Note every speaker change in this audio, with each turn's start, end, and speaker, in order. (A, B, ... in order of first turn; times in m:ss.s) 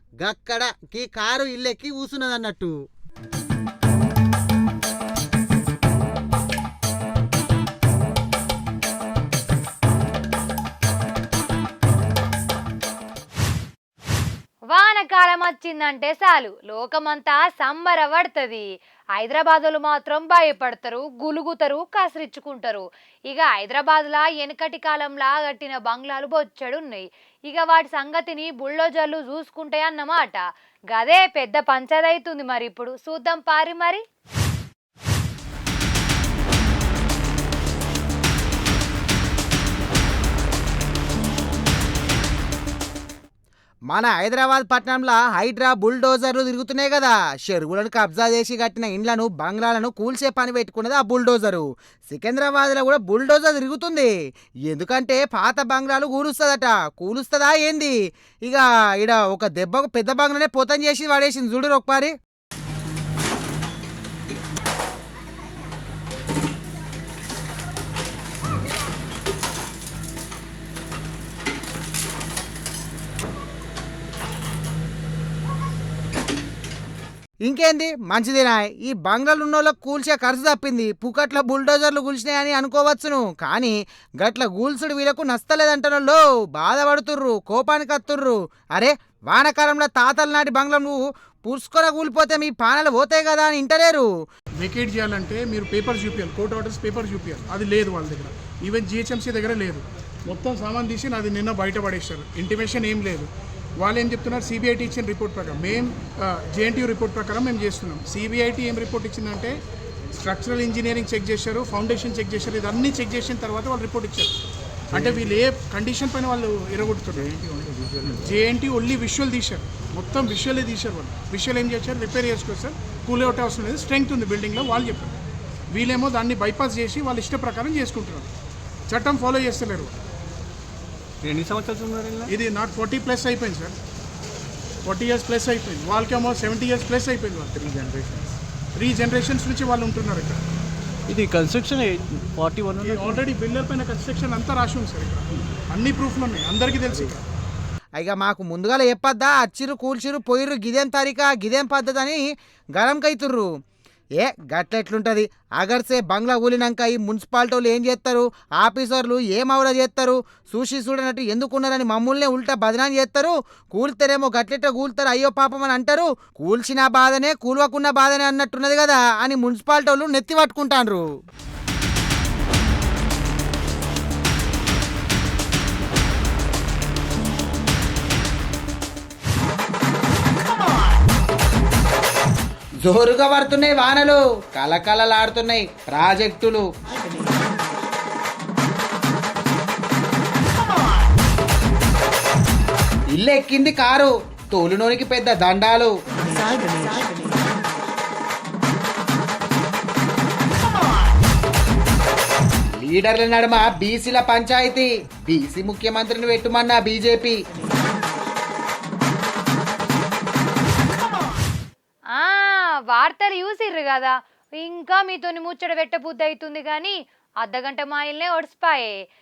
0:00.2-0:02.7 A
0:14.7-0:18.6 B
0:19.2-0:34.0 B
0:43.9-0:54.1 A
0:54.7-1:02.1 A
1:17.4-1:34.1 A
1:34.6-1:49.5 C
1:50.1-1:54.3 C
1:54.9-1:55.4 D
1:54.9-1:57.3 C
1:57.0-1:58.4 D
1:58.1-2:05.1 C
2:05.7-2:08.3 C
2:08.9-2:10.0 C
2:11.2-2:12.3 D
2:12.3-2:13.7 C
2:14.8-2:17.6 C
2:17.6-2:18.4 D
2:18.8-2:20.4 C
2:21.1-2:23.3 D
2:22.8-2:27.2 C
2:26.9-2:27.2 D
2:28.0-2:32.2 A
2:32.7-2:33.5 A
2:34.2-2:51.0 A
3:02.8-3:06.6 A
3:13.1-3:17.0 A
3:22.8-3:27.4 A
3:32.1-3:38.9 B